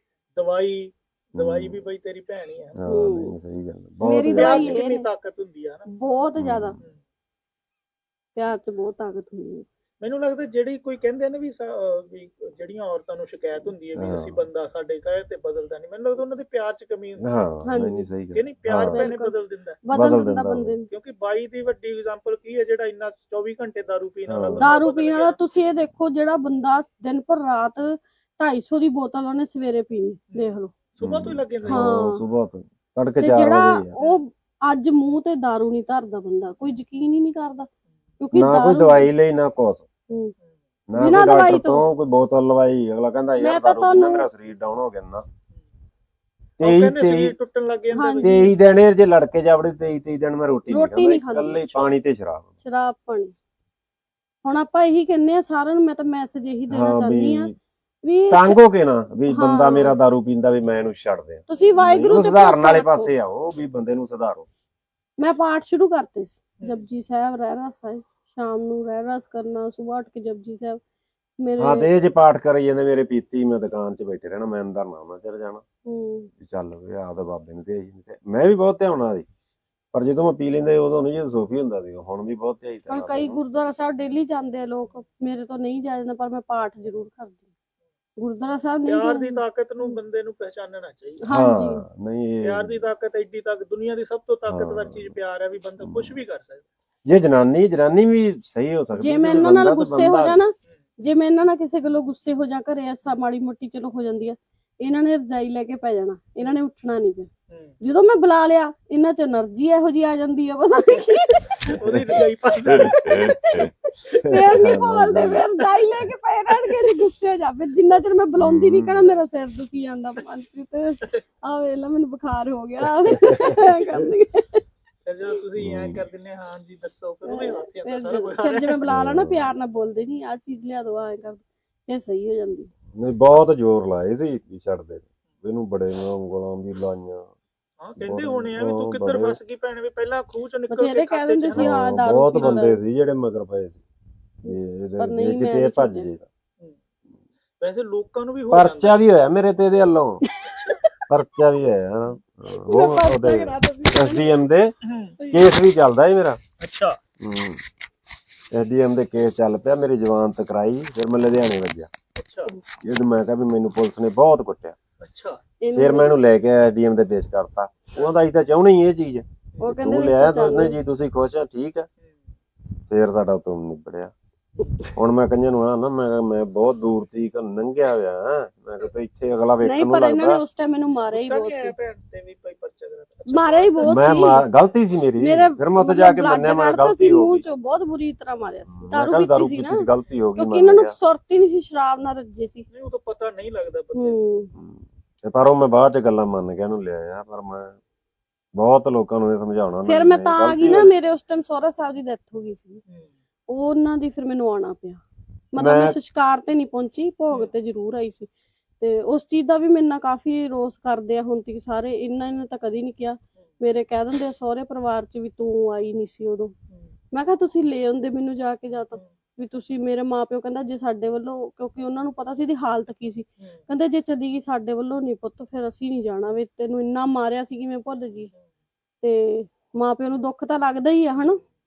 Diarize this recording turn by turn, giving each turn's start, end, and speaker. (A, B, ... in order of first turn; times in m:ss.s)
0:00.4-0:02.8 A
0:01.4-0:01.8 B
0:02.8-0:04.8 B
0:02.8-0:03.3 C
0:04.0-0:05.0 C
0:04.3-0:05.9 A
0:05.9-0:06.8 C
0:06.4-0:06.8 B
0:08.4-0:09.6 C
0:10.0-0:17.2 A
0:14.0-0:14.4 B
0:17.2-0:19.1 B
0:17.6-0:18.1 C
0:18.3-0:19.8 A
0:18.9-0:20.9 C
0:19.9-0:20.8 B
0:20.9-0:25.4 A
0:24.2-0:24.7 B
0:24.6-0:30.7 C
0:30.3-0:31.9 A
0:31.0-0:34.0 B
0:31.7-0:32.2 C
0:33.2-0:37.7 C
0:38.2-0:39.1 C
0:38.3-0:39.8 B
0:40.9-0:45.2 B
0:41.0-0:41.9 C
0:43.4-0:44.3 C
0:46.6-0:47.4 B
0:46.6-0:48.4 A
0:47.9-0:48.5 C
0:48.2-0:52.5 B
0:50.7-0:51.9 C
0:52.6-0:53.3 C
0:54.4-0:57.5 C
0:56.7-0:57.6 B
0:58.0-0:58.6 C
0:58.3-1:04.5 B
0:59.3-1:00.0 C
1:01.5-1:03.1 C
1:05.2-1:10.8 C
1:11.4-1:11.9 C
1:11.6-1:15.6 B
1:15.8-1:16.3 C
1:16.4-1:19.2 B
1:19.9-1:23.4 B
1:22.9-1:27.4 C
1:28.2-1:30.0 C
1:28.8-1:31.3 A
1:31.2-1:31.8 C
1:31.3-1:32.8 B
1:32.4-1:36.7 A
1:34.5-1:35.1 B
1:35.8-1:36.1 B
1:37.1-1:40.4 B
1:39.0-1:47.3 C
1:47.5-1:47.7 A
1:47.8-1:51.6 C
1:51.6-1:53.3 A
1:52.7-1:55.5 B
1:52.8-2:04.6 C
1:58.4-1:59.0 B
2:03.2-2:03.5 B
2:05.0-2:08.9 A
2:05.6-2:06.0 B
2:07.2-2:12.7 C
2:08.9-2:09.5 B
2:13.0-2:17.3 B
2:17.8-2:21.7 A
2:18.0-2:19.4 B
2:20.7-2:22.8 C
2:21.5-2:23.8 B
2:22.3-2:22.6 A
2:24.4-2:26.1 C
2:24.4-2:26.3 B
2:27.6-2:29.0 A
2:28.5-2:30.2 B
2:30.2-2:30.9 C
2:30.5-2:30.8 A
2:31.1-2:34.7 B
2:32.5-2:34.4 C
2:34.8-2:35.2 A
2:35.2-2:35.5 C
2:35.3-2:36.4 B
2:36.6-2:37.0 A
2:37.2-2:37.6 B
2:38.5-2:41.9 B
2:42.2-2:42.5 A
2:42.8-2:44.8 B
2:45.0-2:45.4 A
2:45.6-2:46.2 C
2:45.7-2:51.9 B
2:49.6-2:50.8 C
2:52.9-2:54.1 B
2:54.9-3:00.4 B
2:59.6-3:01.7 C
3:01.1-3:03.9 A
3:03.3-3:04.4 C
3:03.8-3:07.4 B
3:05.2-3:12.6 C
3:08.7-3:11.0 B
3:12.7-3:14.2 A
3:13.9-3:14.5 C
3:14.5-3:17.8 B
3:18.6-3:20.9 B
3:19.8-3:22.8 C
3:23.5-3:25.0 C
3:25.5-3:28.3 C
3:25.6-3:26.0 B
3:28.8-3:36.5 C
3:37.1-3:48.3 C
3:49.0-3:51.4 C